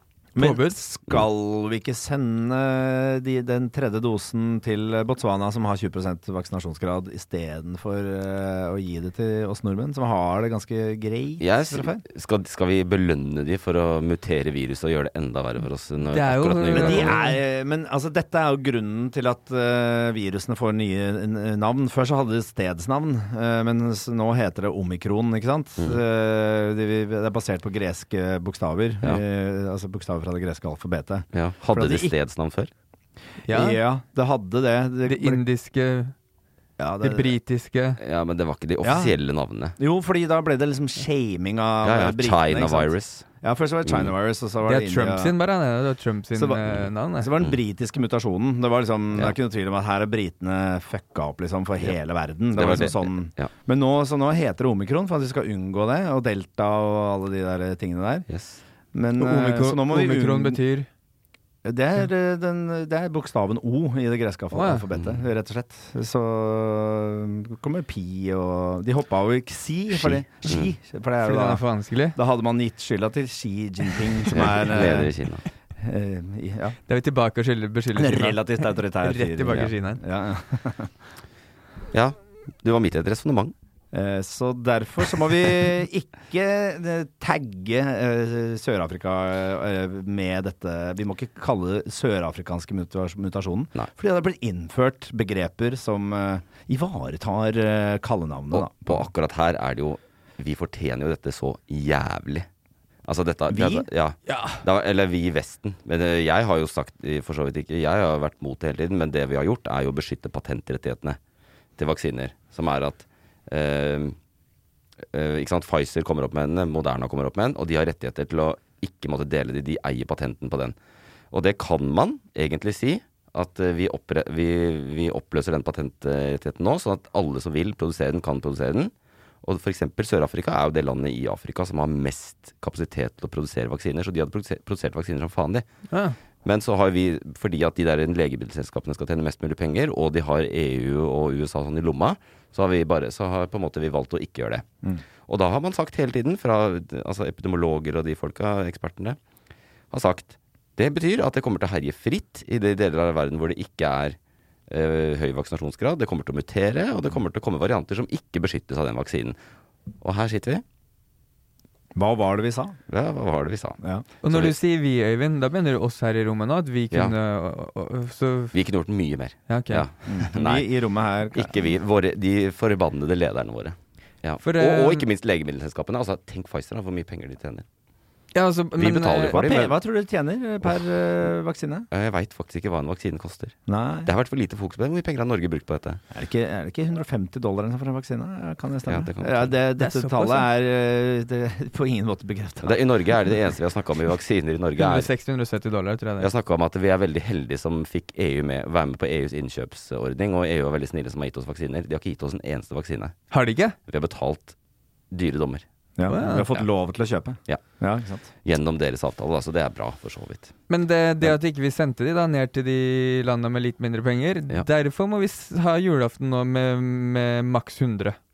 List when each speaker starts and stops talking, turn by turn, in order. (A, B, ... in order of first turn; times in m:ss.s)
0:00.3-0:12.0 A
0:00.4-0:00.8 B
0:11.4-0:17.2 C
0:16.1-0:17.4 B
0:16.7-0:32.1 A
0:31.3-0:32.7 C
0:33.5-0:33.8 B
0:33.5-0:35.4 A
0:35.0-0:36.1 B
0:36.8-0:37.3 A
0:37.0-0:38.0 B
0:38.0-0:39.8 C
0:38.8-0:39.1 A
0:39.8-0:45.3 A
0:41.8-0:43.3 C
0:43.8-0:44.1 C
0:44.6-0:47.3 B
0:46.4-0:58.2 A
0:52.5-0:53.5 C
0:58.3-0:58.6 C
0:58.9-1:00.6 A
0:59.2-1:00.9 B
1:01.6-1:11.6 A
1:04.5-1:04.8 B
1:04.9-1:05.2 C
1:09.9-1:10.7 C
1:11.2-1:12.2 B
1:12.1-1:15.1 A
1:14.3-1:15.4 C
1:15.8-1:16.8 A
1:16.9-1:20.0 B
1:18.0-1:20.9 A
1:21.9-1:23.5 C
1:23.9-1:39.0 A
1:38.5-1:42.5 C
1:43.0-1:51.2 C
1:43.5-1:43.9 A
1:44.3-1:44.6 B
1:51.8-1:54.2 C
1:55.1-2:00.7 C
2:01.3-2:08.9 C
2:09.4-2:15.6 C
2:15.9-2:16.2 B
2:16.4-2:24.6 C
2:25.3-2:29.2 C
2:29.9-2:34.2 C
2:34.7-2:39.4 C
2:40.0-2:40.6 C
2:42.0-2:42.8 A
2:42.9-2:44.5 C
2:44.2-2:48.5 B
2:48.5-2:50.7 C
2:49.5-2:49.8 B
2:50.1-2:51.5 A
2:51.3-2:57.6 C
2:54.4-2:55.0 B
2:58.3-2:59.6 B
2:58.8-2:59.7 C
2:59.3-3:01.9 A
3:01.9-3:06.0 C
3:03.7-3:04.1 A
3:06.1-3:12.8 A
3:08.9-3:09.5 C
3:09.8-3:10.5 B
3:12.6-3:15.1 C
3:14.8-3:16.3 B
3:16.2-3:23.1 C
3:23.3-3:23.8 B
3:23.9-3:24.5 C
3:25.1-3:25.6 C
3:26.0-3:28.2 A
3:26.1-3:26.5 B
3:26.4-3:26.6 C
3:28.4-3:30.5 C
3:30.7-3:38.2 B